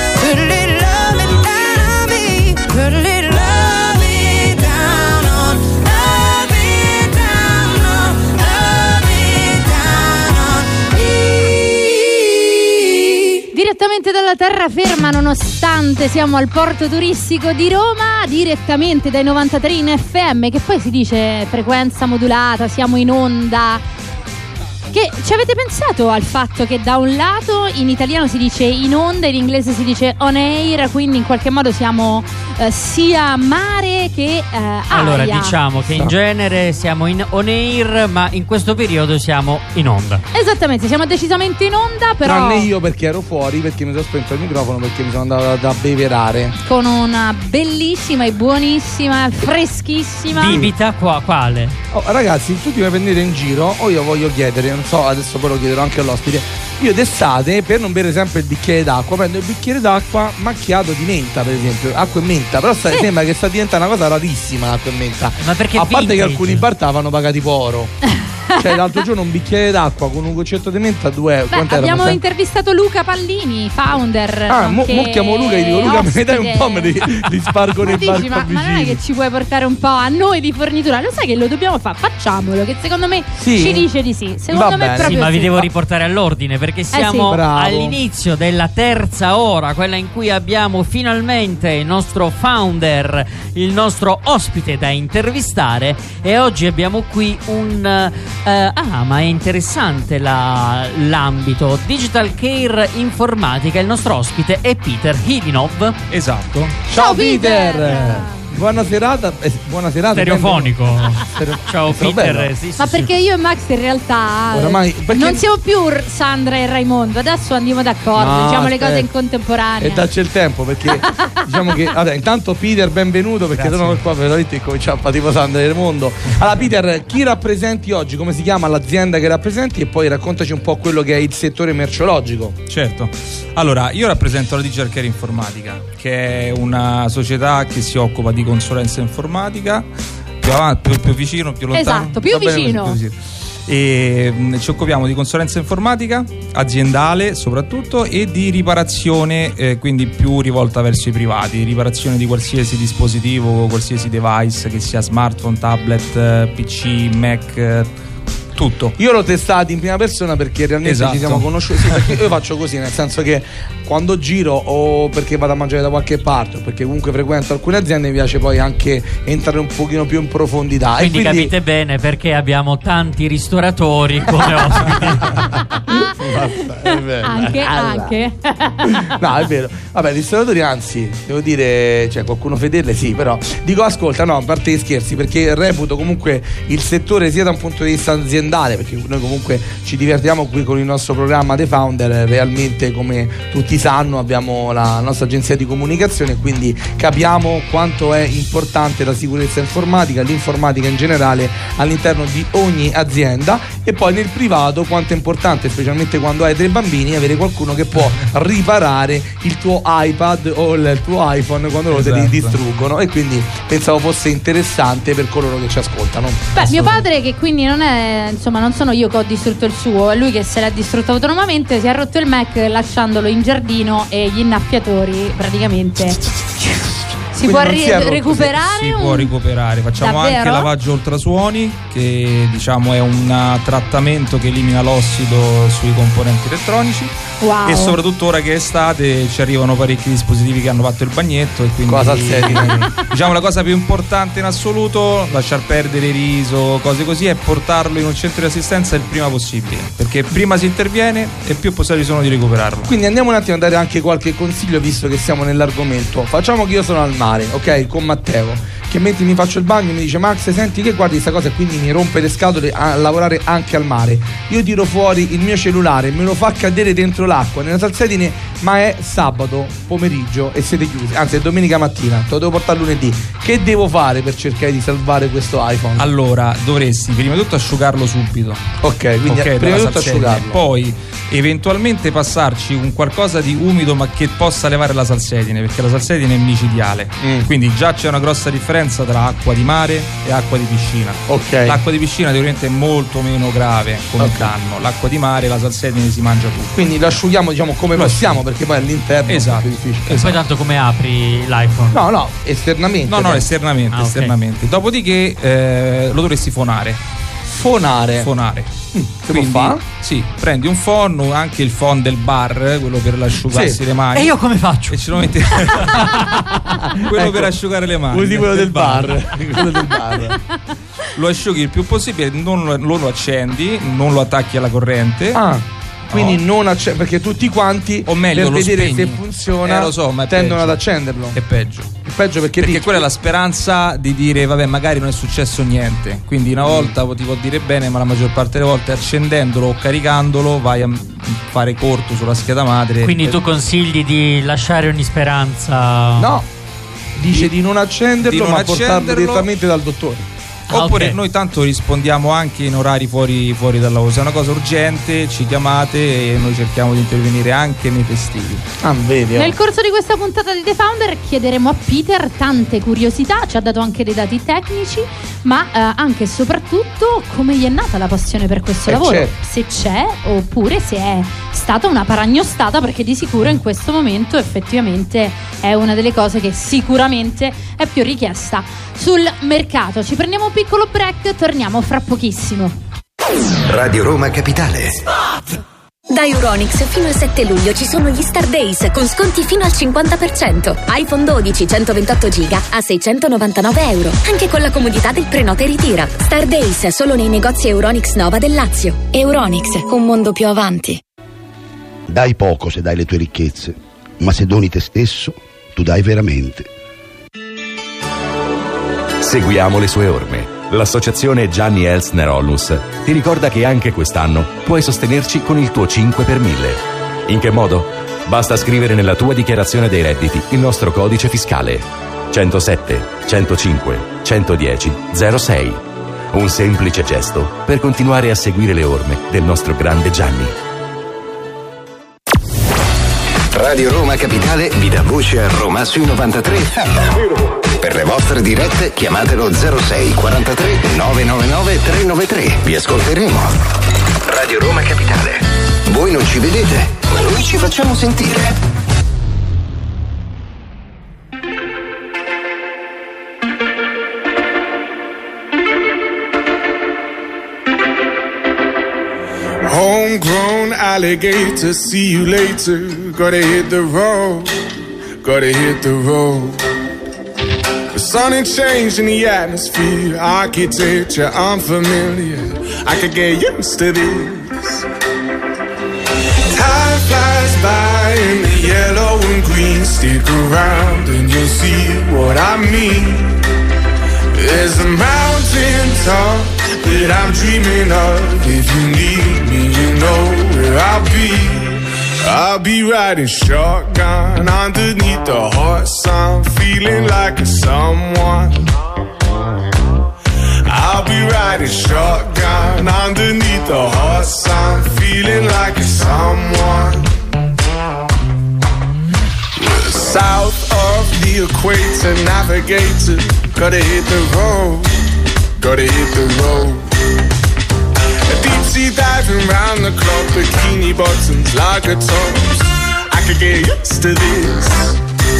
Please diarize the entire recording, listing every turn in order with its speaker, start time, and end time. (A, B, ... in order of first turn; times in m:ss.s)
0:00.2-0:13.3 A
0:13.5-0:23.8 B
0:24.9-0:35.5 B
0:34.9-0:40.2 C
0:40.3-0:42.7 B
0:42.2-0:46.5 D
0:46.6-0:50.6 B
0:50.3-0:51.8 C
0:51.9-1:08.0 D
1:05.4-1:06.7 C
1:08.2-1:08.5 B
1:08.5-1:12.2 D
1:11.5-1:17.0 B
1:14.5-1:19.0 D
1:17.8-1:25.6 B
1:23.4-1:23.9 D
1:24.5-1:25.2 D
1:25.0-1:46.0 C
1:26.9-1:27.3 B
1:27.3-1:28.0 D
1:46.1-1:46.7 E
1:46.9-1:52.5 D
1:46.9-1:48.4 B
1:50.1-1:53.1 C
1:52.8-2:00.0 B
1:54.5-1:55.4 D
1:58.1-1:59.1 D
1:59.8-2:12.6 D
2:01.1-2:01.4 B
2:03.5-2:04.0 E
2:12.7-2:19.9 E
2:20.4-2:37.9 E
2:21.7-2:23.0 B
2:22.4-2:22.8 D
2:38.5-2:38.9 E
2:39.0-2:51.5 D
2:40.8-2:42.0 E
2:51.0-2:55.5 C
2:54.5-2:58.1 D
2:55.9-2:56.3 B
2:56.8-2:59.2 B
2:59.1-3:37.0 D
3:31.9-3:32.5 E
3:36.5-3:46.2 B
3:46.2-3:48.5 D
3:47.3-3:49.3 B
3:48.5-3:57.1 E
3:50.0-3:50.7 B
3:57.4-3:58.0 B
3:57.6-4:12.9 E
4:01.9-4:02.9 D
4:12.8-4:36.1 D
4:36.0-4:38.6 E
4:38.8-4:40.6 D
4:39.2-4:56.7 E
4:47.2-4:47.5 D
4:51.3-4:51.8 D
4:54.2-4:54.5 D
4:56.7-5:00.1 D
4:57.9-4:58.4 E
4:59.3-5:00.4 E
5:00.1-5:02.0 C
5:01.9-5:03.5 D
5:03.1-5:07.0 E
5:03.9-5:04.3 C
5:07.5-5:08.3 D
5:08.2-5:08.7 E
5:08.9-5:09.8 D
5:09.3-5:14.3 E
5:13.5-5:13.8 D
5:14.1-5:15.0 C
5:14.9-5:16.3 E
5:17.0-5:17.6 D
5:17.0-5:19.3 E
5:18.1-5:20.4 D
5:21.1-5:25.4 E
5:25.3-5:31.4 D
5:26.1-5:26.4 E
5:28.0-5:30.8 E
5:31.3-5:32.0 E
5:32.0-5:33.0 D
5:32.6-5:43.3 E
5:36.6-5:36.9 D
5:43.0-5:46.3 C
5:46.2-5:46.5 D
5:47.2-5:50.3 D
5:48.2-5:49.5 E
5:50.7-5:51.2 C
5:50.7-5:58.6 E
5:58.8-5:59.5 D
5:59.4-6:22.8 B
6:08.9-6:09.3 D
6:23.7-6:25.0 F
6:26.1-6:41.0 G
6:42.1-6:46.7 H
6:49.2-7:05.8 I
7:06.3-7:10.5 I
7:13.5-7:23.6 F
7:24.2-7:28.6 F
7:39.6-7:44.6 J
7:45.2-7:46.6 J
7:47.9-7:54.8 J
7:56.5-8:03.4 J
8:04.3-8:18.7 J
8:20.7-8:27.1 J
8:29.6-8:35.0 J
8:35.6-8:36.9 J
8:38.3-8:45.0 J